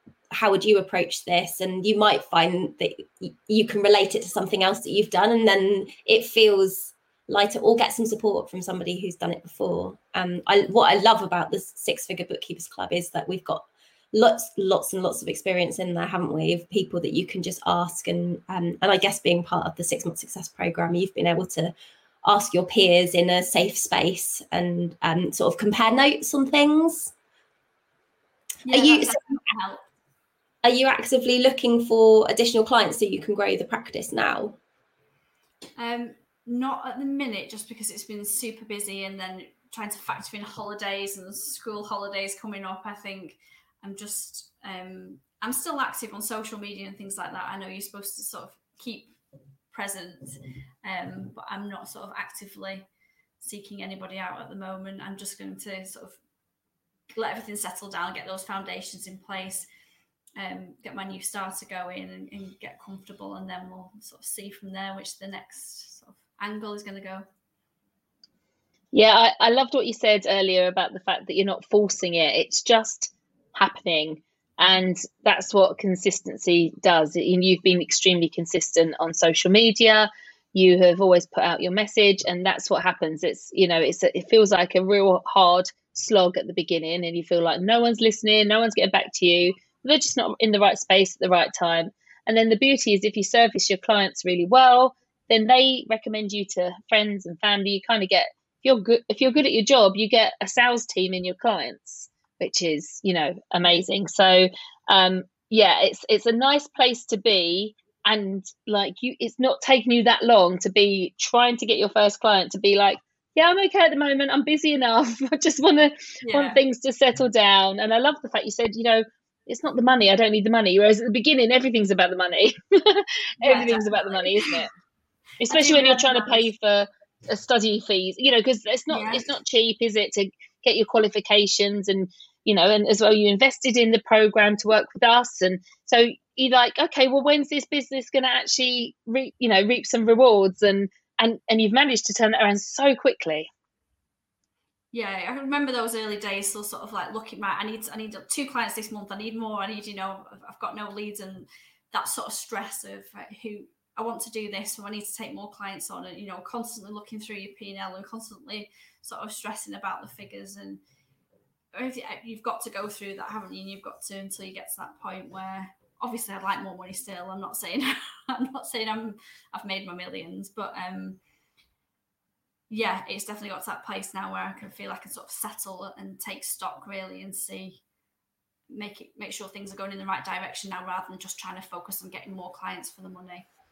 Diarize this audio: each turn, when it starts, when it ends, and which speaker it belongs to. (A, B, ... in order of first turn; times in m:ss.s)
0:00.3-0:21.7 A
0:22.2-0:27.1 A
0:28.6-0:29.8 B
0:28.7-0:29.4 A
0:30.6-0:34.6 A
0:35.8-0:49.2 B
0:49.7-0:52.9 B
0:53.4-0:56.2 B
0:57.1-0:59.7 B
1:00.4-1:07.3 B
1:08.9-2:04.7 C
1:56.2-1:56.6 B
2:03.4-2:04.6 B
2:05.4-2:23.5 C
2:05.5-2:06.5 B
2:08.9-2:09.3 B
2:24.9-2:40.8 B
2:41.7-2:51.2 B
2:52.7-2:57.8 B
2:58.7-3:03.5 B